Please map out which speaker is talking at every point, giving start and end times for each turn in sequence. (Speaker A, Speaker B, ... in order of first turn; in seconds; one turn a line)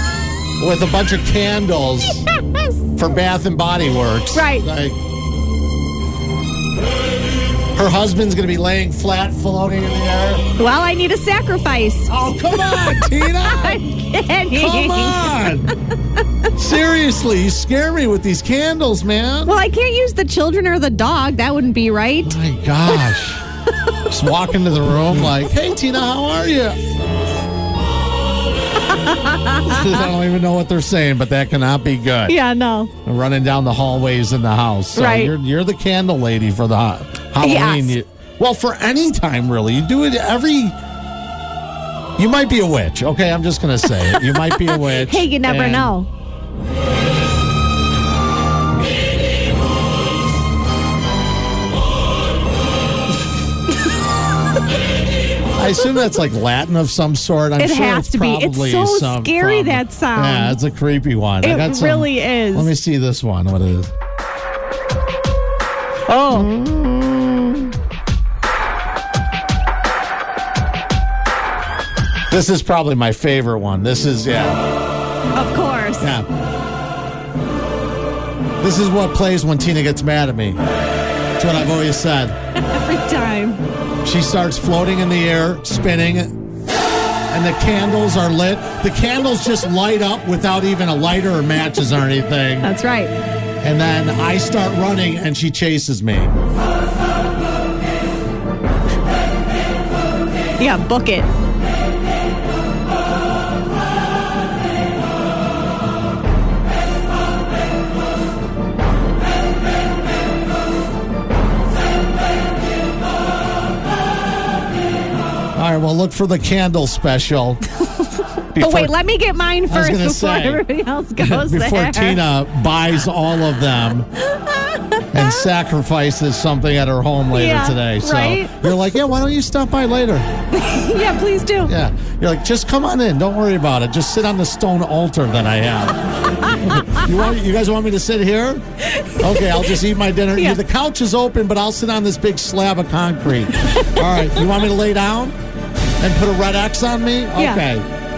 Speaker A: 0.6-2.3
Speaker A: 3.0-5.0
Speaker B: 4.3-4.7
Speaker A: 7.7-10.4
Speaker B: 10.6-15.8
Speaker A: 12.1-13.8
Speaker A: 14.5-15.7
Speaker A: 16.5-19.5
Speaker B: 19.4-22.4
Speaker A: 22.2-23.4
Speaker A: 24.1-26.8
Speaker B: 28.9-30.1
Speaker A: 29.6-32.4
Speaker B: 32.3-32.9
Speaker A: 33.0-40.8
Speaker B: 35.0-35.3
Speaker B: 37.4-38.0
Speaker A: 42.2-45.9
Speaker B: 44.0-46.1
Speaker A: 55.6-63.9
Speaker B: 57.6-60.6
Speaker B: 61.4-62.7
Speaker B: 66.1-66.5
Speaker A: 66.3-67.7
Speaker A: 72.3-74.6
Speaker B: 75.3-76.1
Speaker A: 76.0-76.3
Speaker A: 78.6-80.6
Speaker A: 81.4-82.4
Speaker B: 82.6-83.6
Speaker A: 84.0-86.3
Speaker A: 87.3-92.7
Speaker B: 92.6-93.1
Speaker A: 93.6-96.3
Speaker B: 100.6-101.3
Speaker A: 115.6-117.7
Speaker A: 118.5-118.9
Speaker B: 118.6-122.2
Speaker A: 119.7-120.6
Speaker A: 121.2-124.1
Speaker B: 124.3-125.5
Speaker A: 125.1-130.3
Speaker B: 127.3-128.8
Speaker B: 130.5-131.7
Speaker A: 131.7-145.3
Speaker B: 136.7-137.1
Speaker B: 139.0-139.7
Speaker B: 144.0-144.5
Speaker A: 146.0-147.9
Speaker B: 147.4-147.6